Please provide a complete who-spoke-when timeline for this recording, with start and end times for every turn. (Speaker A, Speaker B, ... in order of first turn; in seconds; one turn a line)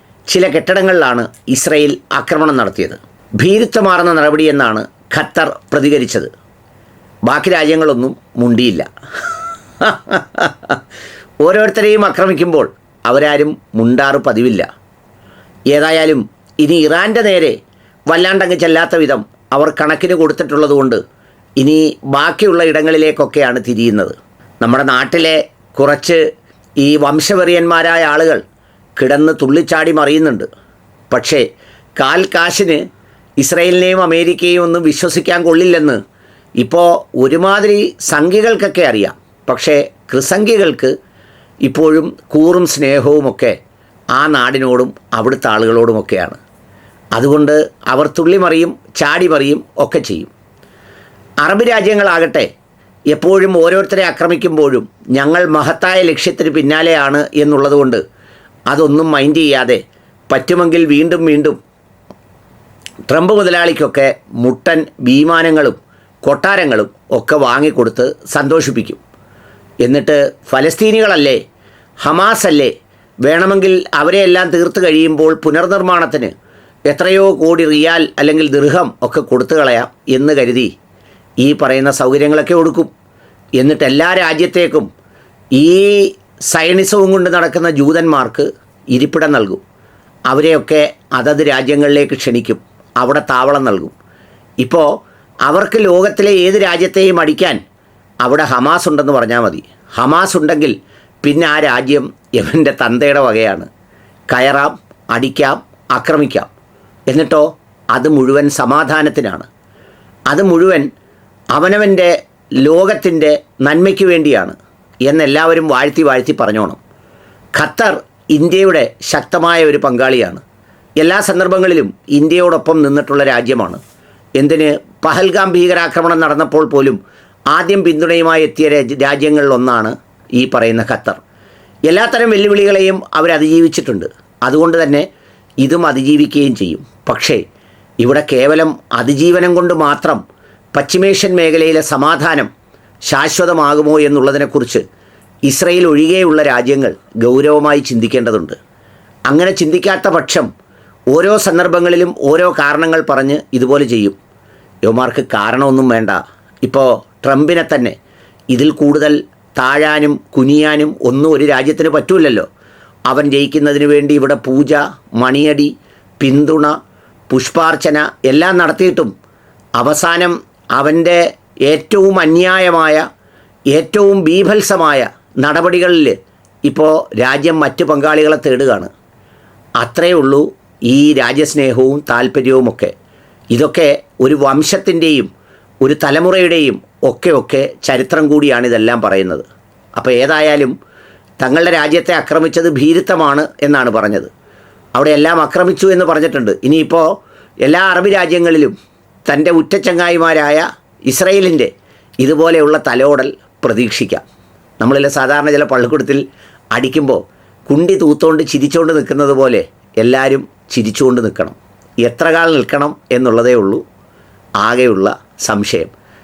Speaker A: 0.3-6.3
Speaker A: 7.2-8.8
Speaker A: 9.8-10.8
Speaker A: 11.4-14.7
Speaker A: 15.7-17.6
Speaker A: 18.1-21.0
Speaker A: 21.6-26.2
Speaker A: 26.8-28.4
Speaker A: 29.0-30.5
Speaker A: 31.1-31.4
Speaker A: 32.0-32.8
Speaker A: 33.4-36.0
Speaker A: 36.6-40.9
Speaker A: 41.6-43.5
Speaker A: 44.1-46.4
Speaker A: 47.1-50.3
Speaker A: 51.4-52.5
Speaker A: 53.1-58.0
Speaker A: 58.7-61.6
Speaker A: 63.1-69.0
Speaker A: 69.8-71.4
Speaker A: 72.0-72.7
Speaker A: 73.2-76.3
Speaker A: 76.9-80.7
Speaker A: 81.4-82.9
Speaker A: 83.6-84.9
Speaker A: 85.5-89.6
Speaker A: 90.3-94.0
Speaker A: 94.6-94.9
Speaker A: 95.4-97.6
Speaker A: 98.2-103.7
Speaker A: 104.3-106.5
Speaker A: 107.1-109.5
Speaker A: 110.3-110.9
Speaker A: 111.5-114.5
Speaker A: 115.0-116.8
Speaker A: 117.5-120.4
Speaker A: 121.0-123.8
Speaker A: 124.4-127.0
Speaker A: 127.5-131.2
Speaker A: 131.9-135.1
Speaker A: 135.6-137.4
Speaker A: 138.0-140.2
Speaker A: 140.7-142.5
Speaker A: 143.1-144.8
Speaker A: 145.4-148.6
Speaker A: 149.3-150.5
Speaker A: 151.1-154.2
Speaker A: 154.8-157.9
Speaker A: 158.5-162.5
Speaker A: 163.1-166.7
Speaker A: 167.3-169.1
Speaker A: 169.8-173.0
Speaker A: 173.7-178.9
Speaker A: 179.8-182.9
Speaker A: 183.5-185.3
Speaker A: 185.8-189.4
Speaker A: 190.0-190.7
Speaker A: 191.4-194.3
Speaker A: 194.9-197.1
Speaker A: 197.6-198.7
Speaker A: 199.3-204.2
Speaker A: 204.8-213.8
Speaker A: 214.6-215.9